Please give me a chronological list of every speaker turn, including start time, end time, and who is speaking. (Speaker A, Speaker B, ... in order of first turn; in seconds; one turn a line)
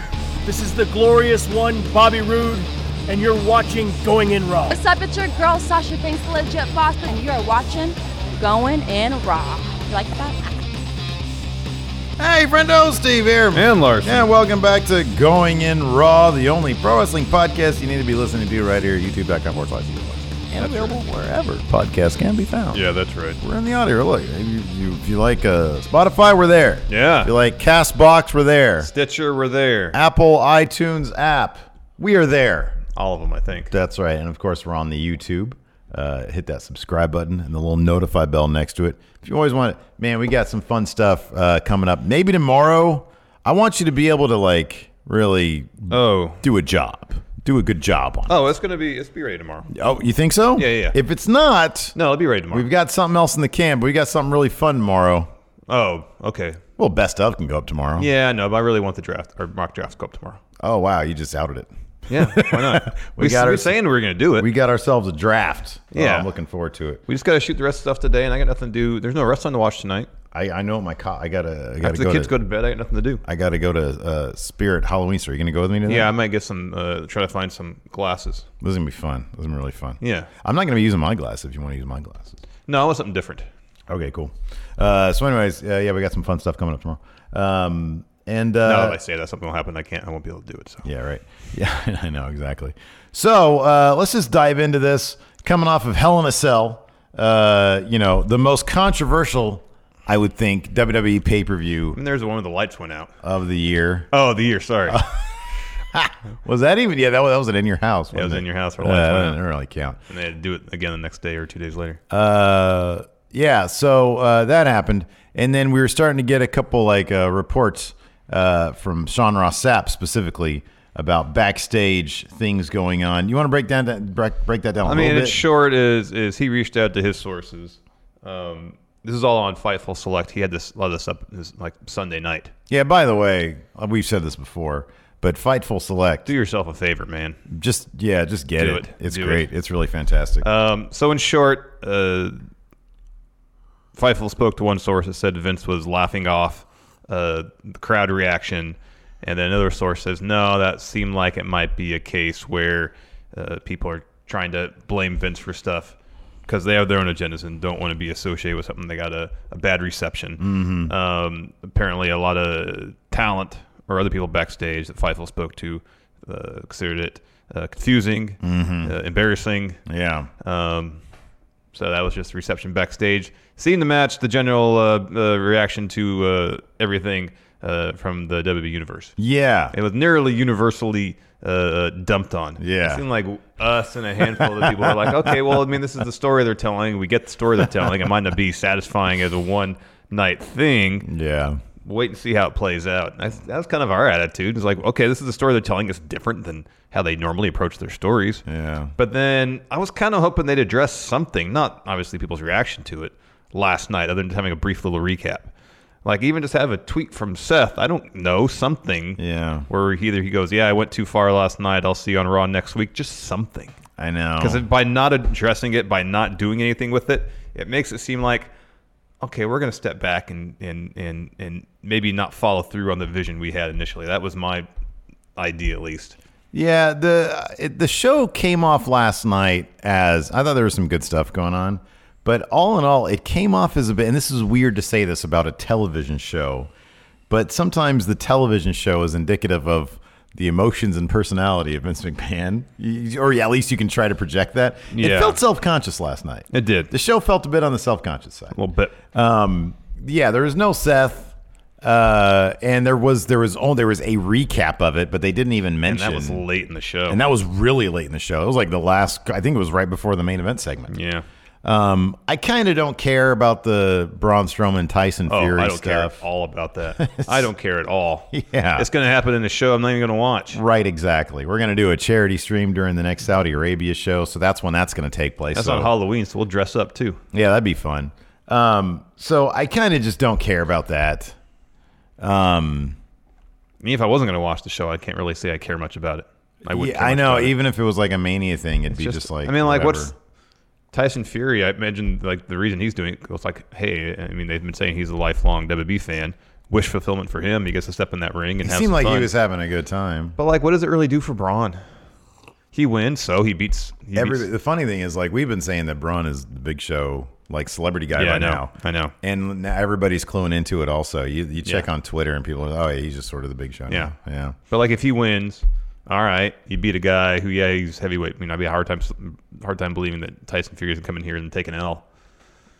Speaker A: 0.4-4.8
Speaker B: 4.7-10.5
Speaker C: 12.2-22.8
Speaker D: 13.5-14.3
Speaker D: 20.6-20.9
Speaker D: 22.7-23.4
Speaker C: 23.4-28.9
Speaker D: 26.9-27.3
Speaker D: 28.8-30.0
Speaker C: 29.9-32.8
Speaker D: 32.9-33.7
Speaker C: 33.7-48.4
Speaker D: 45.9-46.4
Speaker D: 48.3-49.7
Speaker C: 49.7-52.0
Speaker D: 50.5-51.0
Speaker D: 51.9-52.7
Speaker C: 52.5-55.3
Speaker D: 55.7-56.6
Speaker C: 56.8-58.1
Speaker D: 58.0-60.4
Speaker C: 60.6-67.0
Speaker D: 62.1-64.5
Speaker D: 65.9-66.3
Speaker D: 67.1-70.1
Speaker C: 70.3-72.3
Speaker D: 71.8-73.2
Speaker C: 73.2-76.1
Speaker D: 75.8-78.5
Speaker C: 78.6-82.4
Speaker D: 80.0-80.3
Speaker D: 82.7-83.5
Speaker C: 83.9-89.0
Speaker D: 88.6-90.8
Speaker C: 90.8-102.0
Speaker D: 101.9-103.1
Speaker C: 103.2-104.1
Speaker D: 104.1-105.0
Speaker C: 104.9-105.3
Speaker C: 105.9-110.0
Speaker D: 108.1-109.4
Speaker D: 110.1-112.0
Speaker C: 112.1-125.4
Speaker D: 124.8-132.5
Speaker C: 132.7-136.3
Speaker D: 136.2-137.4
Speaker C: 137.5-140.5
Speaker D: 138.6-139.5
Speaker D: 140.4-142.4
Speaker D: 143.9-155.9
Speaker D: 156.5-169.8
Speaker C: 160.4-160.9
Speaker C: 168.4-168.9
Speaker C: 169.8-170.3
Speaker D: 170.4-171.0
Speaker D: 171.7-179.1
Speaker C: 179.2-179.7
Speaker D: 179.7-191.1
Speaker C: 182.6-183.0
Speaker C: 184.2-185.4
Speaker C: 191.0-191.6
Speaker D: 191.8-198.4
Speaker C: 198.4-198.9
Speaker D: 198.9-205.5
Speaker D: 206.0-213.8
Speaker C: 209.2-209.7
Speaker C: 214.0-214.6
Speaker D: 214.4-218.5
Speaker D: 219.2-224.7
Speaker D: 225.3-226.2
Speaker C: 226.5-236.7
Speaker C: 237.3-248.6
Speaker D: 244.9-245.4
Speaker D: 246.5-246.9
Speaker D: 248.5-248.9
Speaker C: 249.1-256.4
Speaker D: 255.8-257.2
Speaker C: 257.1-260.9
Speaker D: 260.9-261.2
Speaker C: 261.6-266.2
Speaker D: 265.3-270.6
Speaker C: 267.0-267.5
Speaker C: 268.3-268.9
Speaker C: 270.5-275.9
Speaker D: 275.5-277.2
Speaker C: 277.3-281.4
Speaker C: 282.2-283.0
Speaker D: 283.8-287.6
Speaker C: 286.7-290.1
Speaker D: 288.9-290.1
Speaker D: 290.9-299.3
Speaker C: 298.6-300.4
Speaker D: 300.4-301.8
Speaker D: 302.7-304.5
Speaker C: 304.1-314.6
Speaker D: 308.1-309.1
Speaker D: 314.7-322.0